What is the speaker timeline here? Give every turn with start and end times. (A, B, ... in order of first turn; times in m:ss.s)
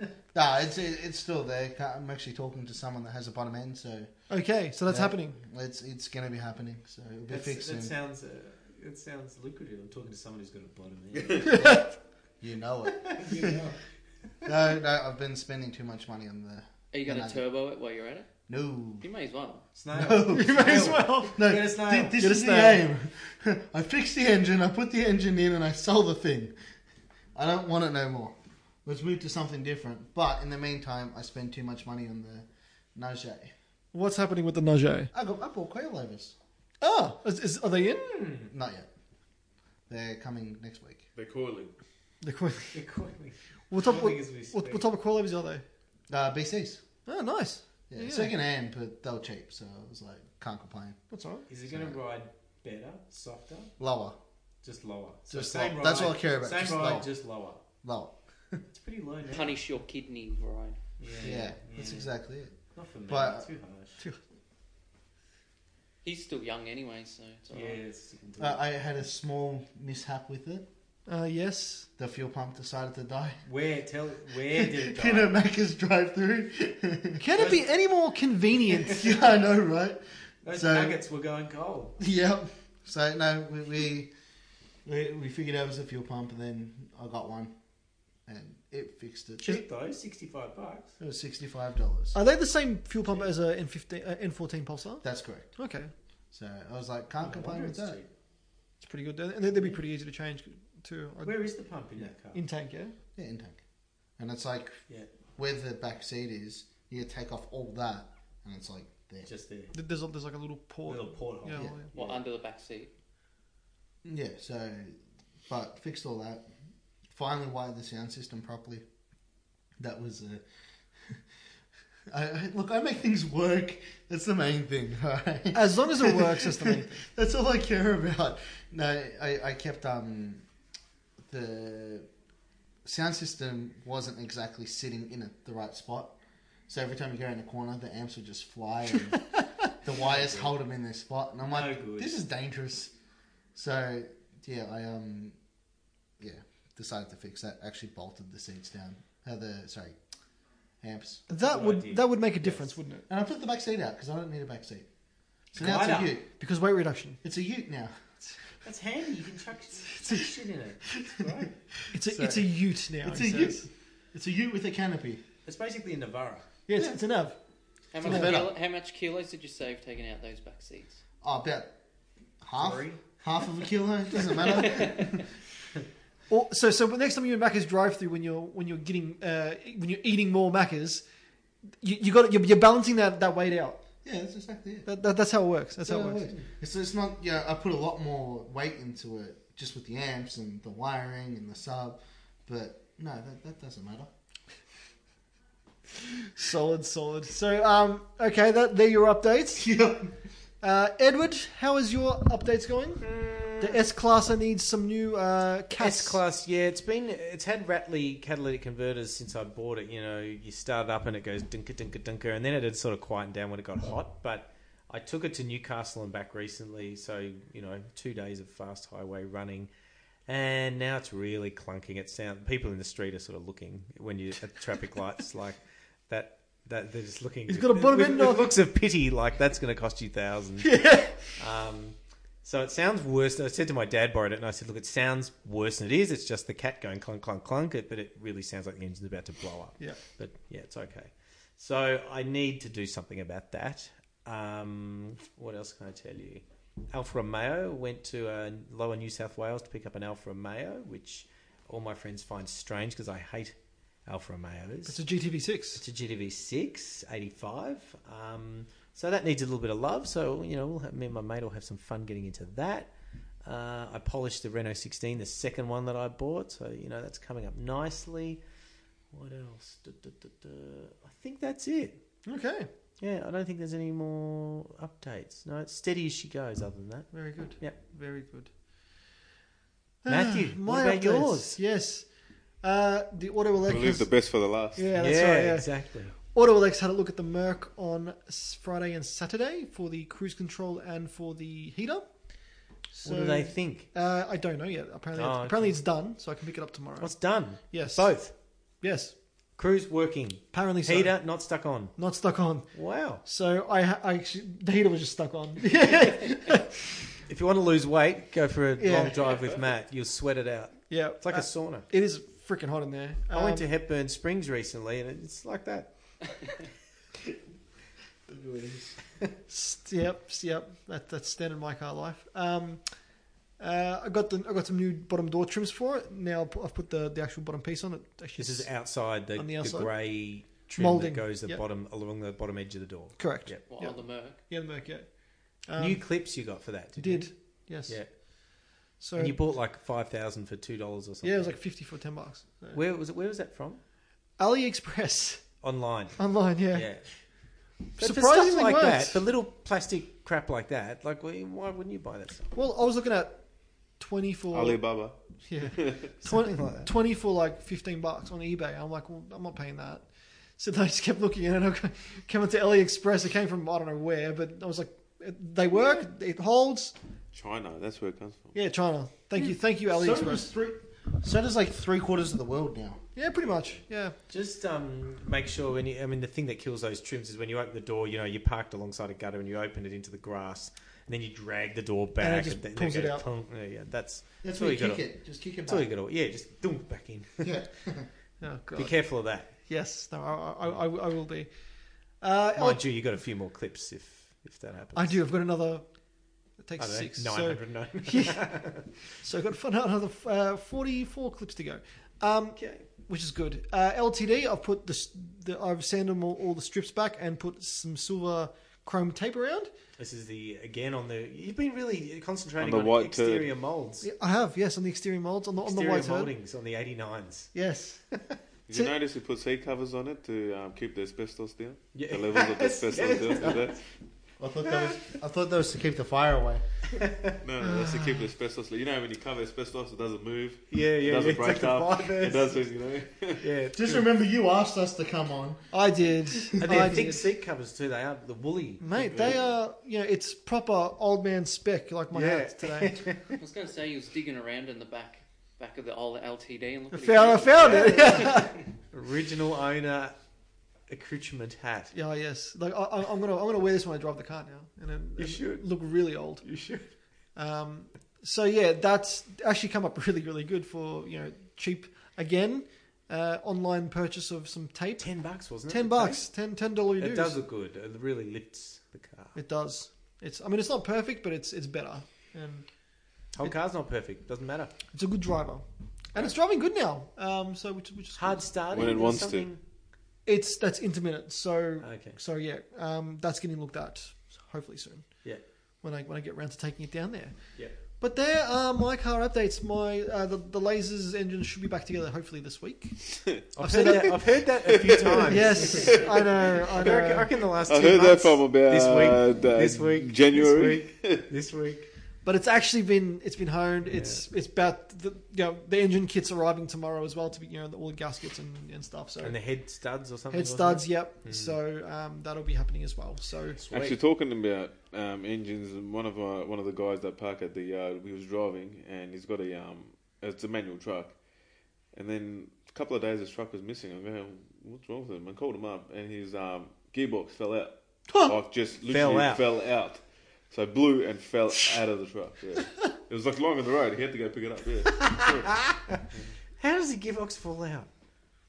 0:00.3-0:04.1 A
0:04.3-0:05.4 B
0:04.9-0:07.9 A
0:07.3-0:11.6 C
0:11.5-0:11.9 B
0:11.5-0:11.9 A
0:12.4-0:13.6 A
0:13.0-0:13.8 C
0:14.4-0:17.4 A
0:16.9-0:18.3 D
0:18.5-0:19.1 A
0:19.0-0:19.6 D
0:19.8-0:22.2 C
0:19.9-0:26.5 A
0:20.3-0:21.4 B
0:22.2-0:22.8 B
0:27.4-0:33.5 A
0:33.9-0:35.1 B
0:35.1-0:36.4 A
0:36.8-0:38.2 B
0:38.0-0:38.5 C
0:38.5-0:38.9 A
0:39.9-0:41.0 A
0:41.2-0:41.7 E
0:42.2-0:42.8 B
0:42.7-0:44.8 C
0:43.7-0:45.6 B
0:46.1-0:46.8 A
0:47.1-0:48.3 B
0:47.9-0:51.0 A
0:51.1-0:51.4 B
0:51.5-0:53.7 C
0:51.7-0:52.0 A
0:53.8-0:54.2 A
0:54.6-0:57.6 C
0:55.3-0:57.1 A
0:57.8-0:58.6 A
0:58.7-0:59.5 C
0:59.2-0:59.5 A
0:59.3-1:00.8 D
1:01.0-1:02.1 C
1:01.2-1:02.5 A
1:02.7-1:04.0 C
1:03.1-1:03.5 A
1:06.0-1:07.8 D
1:07.5-1:08.6 C
1:08.4-1:10.7 A
1:11.1-1:11.9 B
1:12.0-1:13.4 A
1:13.4-1:15.4 C
1:14.5-1:17.6 A
1:17.2-1:19.1 B
1:18.9-1:21.0 A
1:20.4-1:22.0 C
1:22.0-1:24.1 A
1:24.8-1:27.5 A
1:28.3-1:29.6 A
1:29.4-1:30.9 C
1:31.0-1:32.2 A
1:32.1-1:35.0 B
1:35.0-1:35.6 A
1:35.6-1:35.9 B
1:36.3-1:38.0 A
1:37.2-1:38.1 C
1:38.8-1:41.4 B
1:41.2-1:42.4 C
1:42.3-1:43.0 B
1:43.2-1:43.6 A
1:44.2-1:44.8 A
1:45.4-1:49.3 A
1:49.2-1:49.7 C
1:49.7-1:51.9 B
1:50.9-1:52.2 C
1:51.9-1:52.9 D
1:54.0-1:55.0 A
1:55.5-1:56.5 A
1:57.1-1:58.8 A
1:59.8-2:00.4 A
2:02.1-2:10.4 A
2:05.5-2:07.0 B
2:11.3-2:12.1 A
2:12.8-2:16.2 A
2:16.7-2:19.2 A
2:19.8-2:22.9 A
2:19.9-2:20.6 C
2:21.5-2:22.2 C
2:23.6-2:25.4 A
2:26.2-2:30.0 A
2:30.8-2:31.2 A
2:31.3-2:33.1 B
2:31.3-2:32.8 C
2:33.1-2:34.9 A
2:35.5-2:36.3 A
2:35.6-2:36.2 C
2:36.4-2:37.2 B
2:37.2-2:38.0 A
2:38.6-2:41.5 C
2:41.9-2:43.7 B
2:42.0-2:42.5 C
2:43.0-2:45.2 A
2:45.4-2:46.5 C
2:46.7-2:47.4 B
2:47.9-2:51.0 D
2:48.0-2:48.5 A
2:48.0-2:48.3 B
2:51.2-2:51.7 A
2:52.4-2:55.2 A
2:52.6-2:53.0 C
2:54.4-2:55.2 D
2:56.3-3:01.0 B
3:01.8-3:03.8 B
3:04.0-3:04.9 A
3:04.8-3:06.2 B
3:05.8-3:14.1 A
3:16.4-3:19.7 B
3:19.6-3:20.1 A
3:20.6-3:26.2 B
3:23.0-3:23.8 C
3:25.8-3:39.7 C
3:40.3-3:45.6 C
3:46.1-4:15.0 C
3:47.5-3:48.5 B
3:50.6-3:51.2 B
4:14.9-4:15.8 B
4:15.8-4:22.9 C
4:23.4-4:28.4 C
4:29.1-4:32.0 C
4:32.2-4:32.7 B
4:33.0-4:37.8 C
4:37.1-4:38.5 B
4:40.0-4:42.1 B
4:40.1-4:41.6 C
4:42.6-4:44.1 B
4:43.6-4:44.9 E
4:44.8-4:52.1 B
4:45.0-4:46.2 C
4:52.9-4:59.1 B
4:53.0-4:53.9 C
4:55.2-4:55.9 C
4:57.0-4:58.3 C
4:59.6-5:02.0 C
5:00.5-5:01.4 B
5:02.0-5:06.8 B
5:02.7-5:03.2 C
5:07.3-5:11.9 C
5:08.8-5:09.2 B
5:10.9-5:13.6 B
5:13.3-5:15.9 C
5:18.3-5:18.9 A
5:19.5-5:22.8 B
5:23.6-5:28.8 B
5:28.4-5:33.6 C
5:29.4-5:30.0 B
5:30.8-5:31.6 B
5:33.2-5:35.1 B
5:33.6-5:34.4 D
5:35.7-5:36.0 B
5:35.8-5:37.3 C
5:37.0-5:38.0 B
5:39.0-5:39.4 B
5:39.2-5:41.6 C
5:41.2-5:42.8 B
5:42.7-5:43.8 C
5:44.4-5:45.4 B
5:45.6-5:47.1 C
5:46.2-5:46.9 B
5:48.0-5:52.5 C
5:48.0-5:49.2 B
5:52.5-5:53.4 B
5:54.0-5:54.8 B
5:54.5-5:55.2 E
5:55.5-6:00.1 B
5:55.8-5:56.1 E
5:56.2-5:56.9 C
6:00.6-6:06.9 B
6:05.7-6:06.0 C
6:07.3-6:08.6 E
6:08.6-6:10.4 B
6:09.9-6:13.0 A
6:13.2-6:14.2 B
6:14.3-6:25.1 C
6:22.2-6:23.3 B
6:24.4-6:25.9 A
6:25.6-6:27.6 C
6:27.4-6:28.1 A
6:28.4-6:29.1 B
6:28.8-6:29.5 C
6:29.7-6:31.5 B
6:32.2-6:32.8 B
6:32.6-6:35.2 C
6:35.0-6:35.8 B
6:36.6-6:38.7 B
6:36.8-6:38.9 C
6:39.2-6:49.7 B
6:42.6-6:42.8 C
6:50.0-6:54.1 C
6:52.6-6:53.5 E
6:54.0-6:56.3 B
6:55.6-6:57.5 C
6:57.5-6:58.9 B
6:58.7-7:03.8 E
7:01.9-7:03.8 C
7:04.4-7:06.6 A
7:04.6-7:05.0 C
7:07.0-7:07.4 C
7:07.4-7:13.4 E
7:07.6-7:08.2 B
7:10.7-7:12.6 C
7:13.4-7:14.1 C
7:13.8-7:15.7 A
7:15.7-7:17.3 B
7:16.6-7:19.4 C
7:18.8-7:23.1 B
7:19.0-7:19.5 E
7:22.1-7:23.4 C
7:23.4-7:28.5 D
7:26.9-7:28.6 B
7:27.6-7:28.4 C
7:28.9-7:30.2 C
7:30.9-7:31.9 C
7:31.9-7:36.5 B
7:35.2-7:35.7 C
7:36.4-7:36.9 C
7:37.4-7:45.1 B
7:45.0-7:46.3 C
7:45.7-7:47.4 B
7:47.0-7:49.4 C
7:49.4-7:52.7 B
7:53.4-7:54.7 C
7:54.9-7:59.0 B
7:58.2-7:59.6 C
7:58.7-7:59.5 E
8:00.3-8:05.3 B
8:01.8-8:02.2 C
8:05.8-8:14.3 B
8:13.5-8:16.0 C
8:14.7-8:16.5 E
8:15.3-8:17.3 B
8:16.8-8:21.9 C
8:17.6-8:21.2 E
8:22.2-8:29.4 B
8:23.9-8:24.2 C
8:29.2-8:31.6 C
8:30.3-8:33.6 B
8:33.6-8:34.0 C
8:33.7-8:41.2 E
8:41.9-8:55.6 E
8:48.1-8:48.4 A
8:48.9-8:49.4 C
8:54.9-8:56.0 C
8:56.6-8:57.9 C